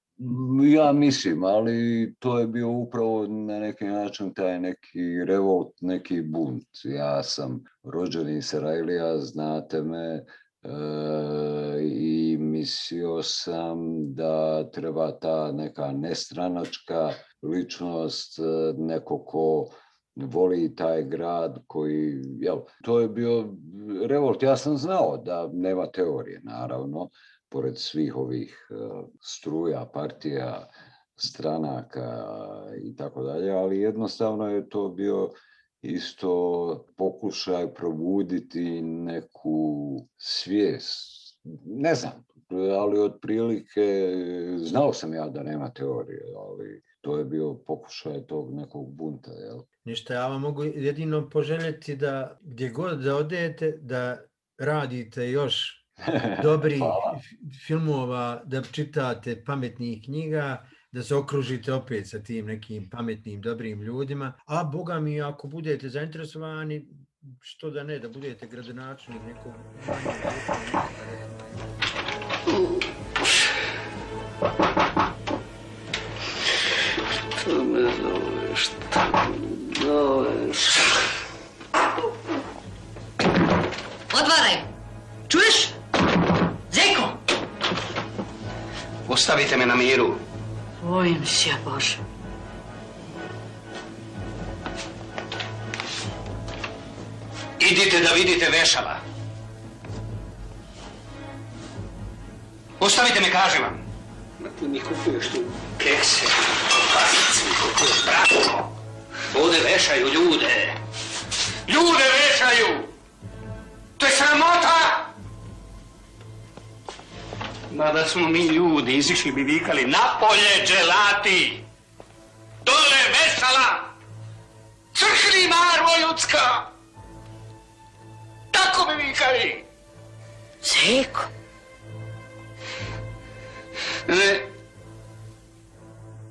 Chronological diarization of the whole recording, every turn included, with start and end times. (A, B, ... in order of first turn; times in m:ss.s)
0:00.2-0:49.7 A
0:49.8-1:11.6 B
0:56.1-0:57.2 A
1:17.3-1:20.9 C
1:24.1-1:24.7 D
1:25.3-1:25.8 D
1:26.7-1:27.2 D
1:29.1-1:30.2 C
1:30.8-1:32.0 D
1:37.6-1:39.0 C
1:42.8-1:43.8 C
1:44.4-1:48.7 C
1:49.3-1:50.8 C
1:51.7-1:52.9 C
1:54.0-1:55.1 C
1:57.7-2:01.6 C
2:02.6-2:03.9 C
2:04.9-2:06.6 C
2:08.5-2:09.6 C
2:10.6-2:11.3 D
2:14.1-2:14.5 C